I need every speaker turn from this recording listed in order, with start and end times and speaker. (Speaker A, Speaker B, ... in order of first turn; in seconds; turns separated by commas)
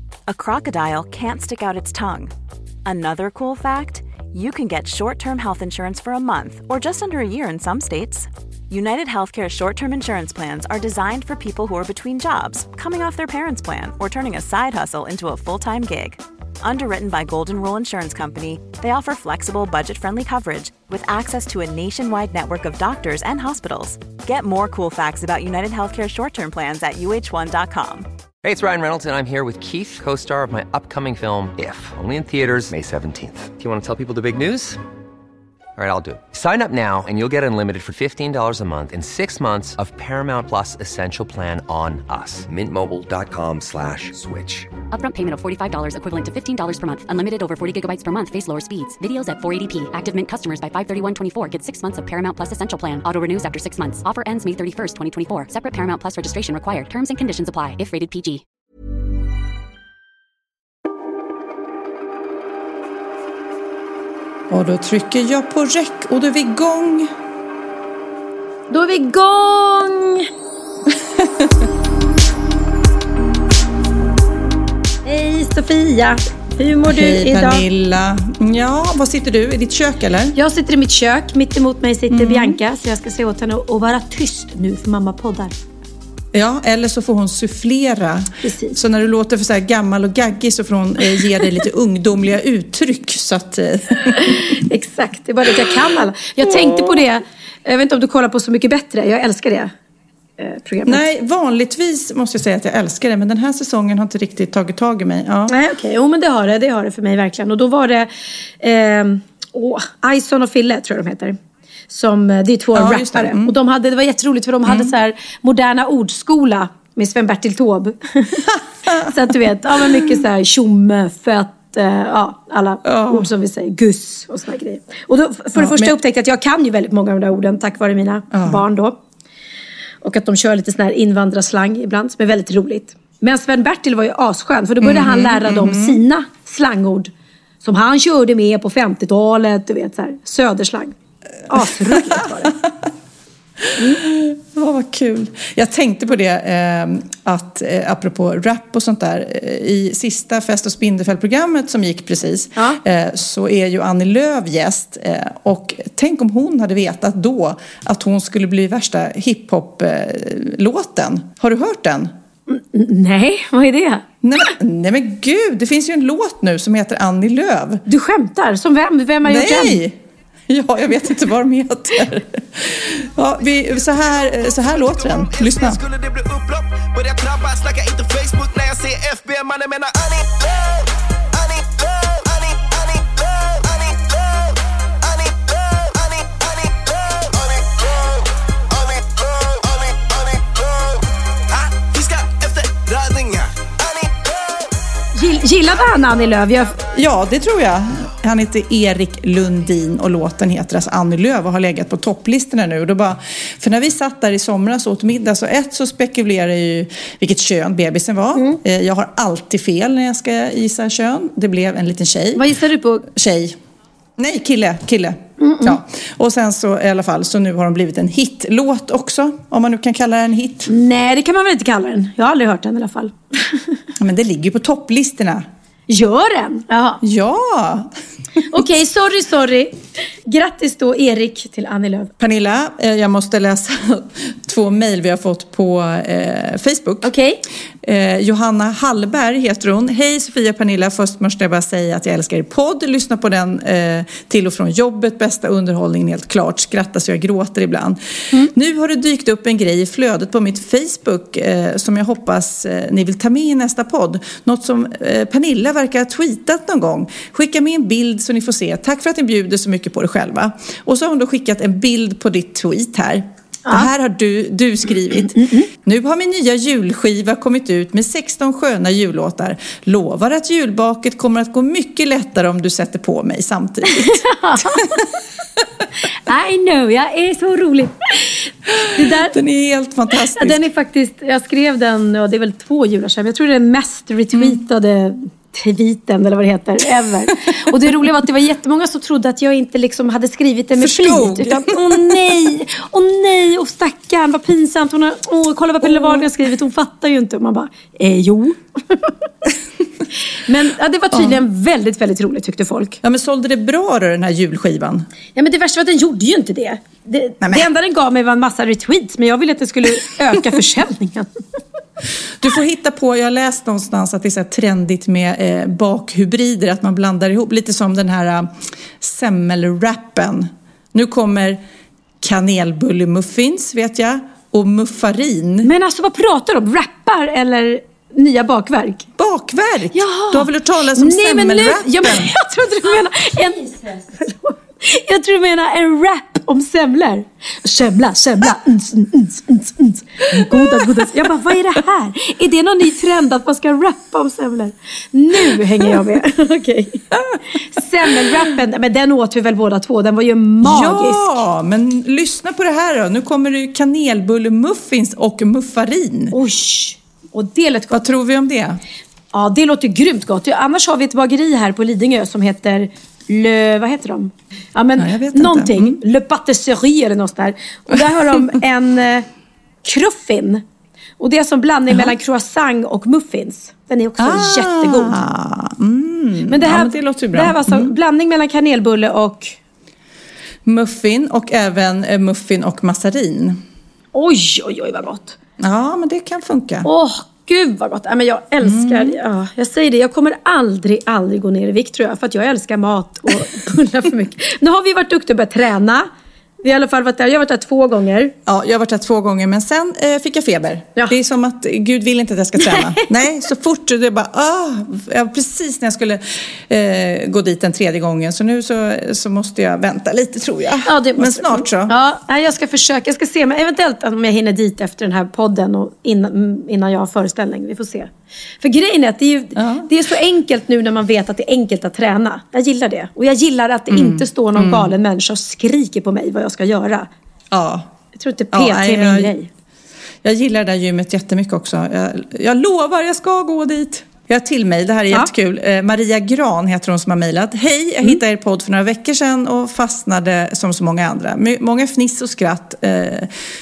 Speaker A: 0.3-2.3, Speaker A: 2.9-28.1, Speaker B: 28.4-34.8, Speaker B: 35.8-44.7, Speaker C: 44.9-58.4, Speaker D: 64.5-67.1, Speaker E: 68.7-70.3, Speaker D: 71.0-71.6, Speaker E: 75.0-77.6, Speaker D: 76.8-80.4, Speaker E: 80.3-85.5, Speaker D: 82.1-82.6, Speaker D: 86.3-94.6, Speaker E: 88.4-88.8, Speaker E: 94.2-99.7, Speaker D: 96.4-97.0, Speaker E: 100.4-101.1, Speaker D: 100.9-105.5, Speaker E: 105.5-111.4, Speaker E: 111.9-129.0, Speaker D: 112.7-113.5, Speaker D: 114.7-114.9, Speaker D: 118.9-119.1, Speaker D: 119.8-120.2, Speaker D: 122.8-123.3, Speaker D: 125.6-126.0, Speaker D: 128.3-128.6, Speaker E: 130.0-137.1, Speaker D: 134.8-136.0, Speaker E: 137.6-140.9, Speaker E: 141.5-142.5, Speaker D: 141.5-142.8, Speaker D: 143.6-162.1, Speaker E: 143.8-144.0, Speaker E: 162.5-164.1, Speaker D: 164.2-167.8, Speaker E: 167.9-169.8, Speaker D: 169.2-170.0, Speaker D: 170.5-175.8, Speaker F: 174.8-180.8, Speaker F: 181.3-184.4, Speaker F: 185.1-188.1, Speaker F: 188.7-191.0, Speaker F: 191.5-194.3, Speaker E: 195.2-196.8, Speaker D: 196.8-212.5, Speaker E: 212.4-213.1, Speaker D: 213.1-213.6, Speaker D: 214.2-220.7, Speaker E: 215.4-215.8, Speaker E: 220.7-223.7, Speaker D: 224.0-225.5, Speaker E: 225.9-227.0, Speaker D: 227.0-228.6, Speaker E: 228.5-232.1, Speaker D: 232.2-237.1, Speaker E: 237.0-237.4, Speaker D: 237.8-275.1, Speaker E: 265.3-265.7, Speaker E: 273.9-275.0, Speaker E: 276.0-279.4, Speaker D: 278.7-280.7, Speaker E: 280.4-299.1, Speaker D: 284.3-284.6, Speaker D: 287.3-287.8, Speaker D: 290.8-292.4, Speaker D: 295.8-296.3, Speaker E: 300.3-303.0, Speaker D: 301.1-301.4, Speaker D: 303.0-305.1, Speaker E: 305.4-311.3, Speaker D: 307.4-307.7, Speaker D: 312.4-321.6, Speaker D: 322.2-325.7, Speaker E: 325.6-329.1, Speaker D: 329.2-332.3, Speaker E: 329.9-347.1, Speaker D: 340.3-341.2, Speaker D: 345.6-346.0, Speaker D: 347.1-347.4, Speaker E: 347.6-351.4, Speaker D: 348.1-348.4, Speaker D: 350.6-356.4, Speaker E: 356.3-358.0, Speaker D: 357.9-358.8, Speaker E: 359.3-369.3, Speaker D: 365.0-366.0, Speaker D: 367.9-368.4, Speaker E: 369.8-370.6, Speaker E: 371.2-375.2, Speaker D: 374.2-377.9, Speaker E: 376.5-379.6, Speaker D: 380.7-383.6, Speaker E: 384.1-385.4, Speaker D: 385.6-386.9, Speaker E: 386.8-396.1, Speaker D: 388.6-389.2, Speaker E: 396.6-398.3, Speaker D: 398.5-411.9, Speaker E: 402.6-403.1, Speaker E: 410.9-427.1, Speaker D: 419.6-419.9, Speaker D: 423.9-424.9, Speaker D: 427.5-427.9, Speaker E: 428.1-429.5, Speaker D: 428.5-429.3, Speaker D: 430.2-443.3